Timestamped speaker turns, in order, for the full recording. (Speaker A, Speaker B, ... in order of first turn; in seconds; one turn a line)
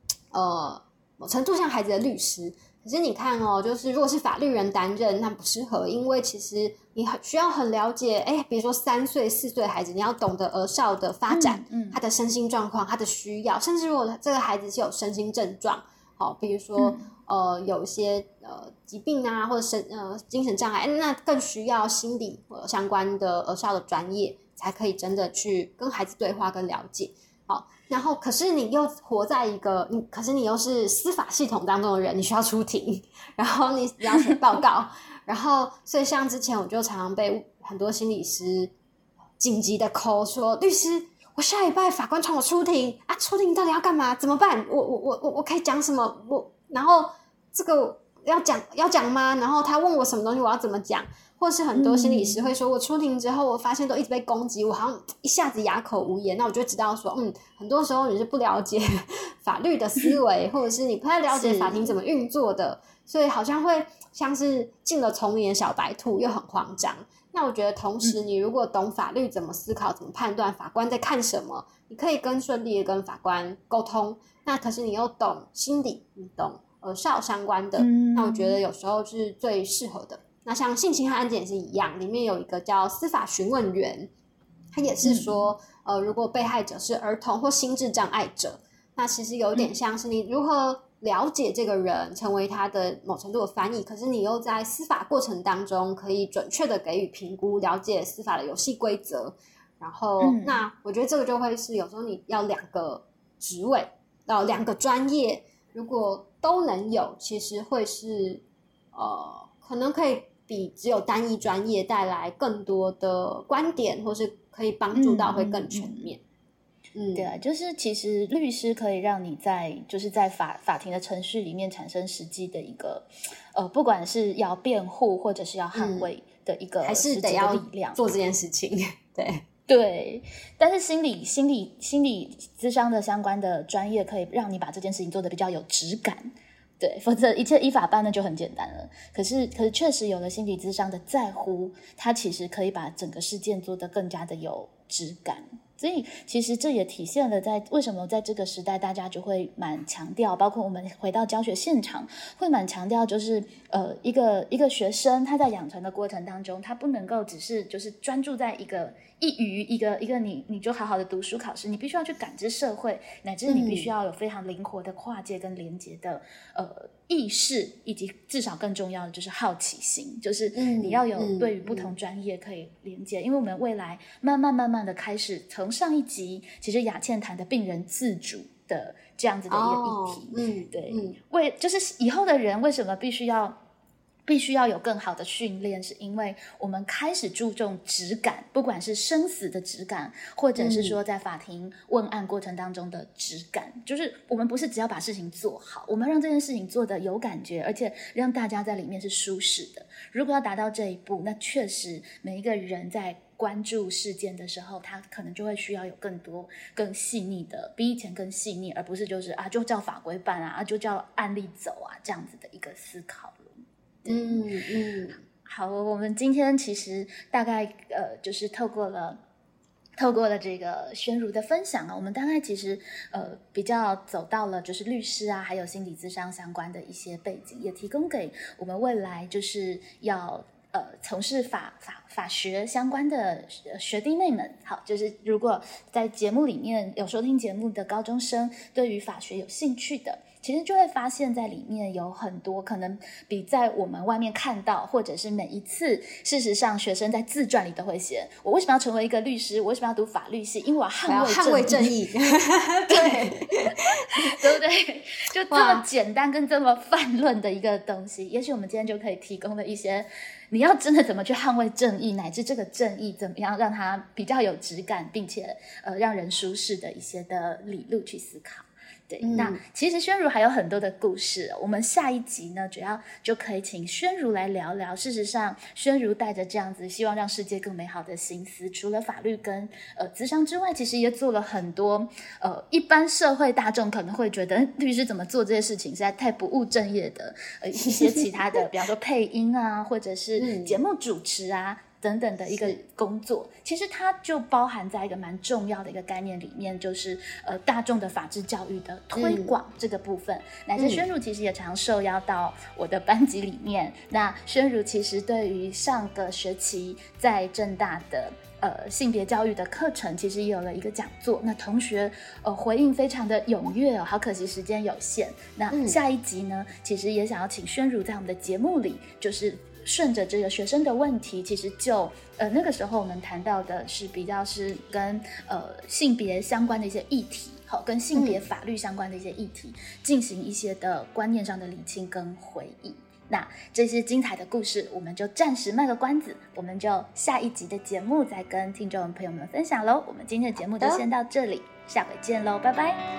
Speaker A: 0.3-38.7
Speaker B: 11.3-12.0
Speaker B: 16.8-17.1
Speaker A: 39.4-84.1
Speaker B: 51.8-52.4
Speaker B: 61.3-61.9
Speaker B: 77.8-78.6
Speaker A: 84.7-108.4
Speaker B: 85.0-85.5
Speaker B: 100.2-100.7
Speaker A: 108.9-116.2
Speaker B: 115.0-116.1
Speaker A: 117.0-117.3
Speaker B: 117.2-128.0
Speaker A: 125.8-126.1
Speaker A: 126.8-129.4
Speaker B: 129.7-183.6
Speaker A: 163.5-163.9
Speaker A: 170.6-171.9
Speaker A: 179.5-181.2
Speaker B: 184.3-214.4
Speaker A: 190.6-191.0
Speaker A: 214.1-215.2
Speaker B: 215.5-219.2
Speaker B: 220.0-251.9
Speaker A: 251.1-254.4
Speaker B: 252.9-253.3
Speaker B: 254.1-343.0
Speaker A: 255.5-255.8
Speaker A: 269.2-269.6
Speaker A: 287.9-288.2
Speaker A: 290.4-290.8
Speaker A: 292.5-292.8
Speaker A: 299.1-299.6
Speaker A: 300.8-301.1
Speaker A: 315.7-316.0
Speaker A: 328.1-328.4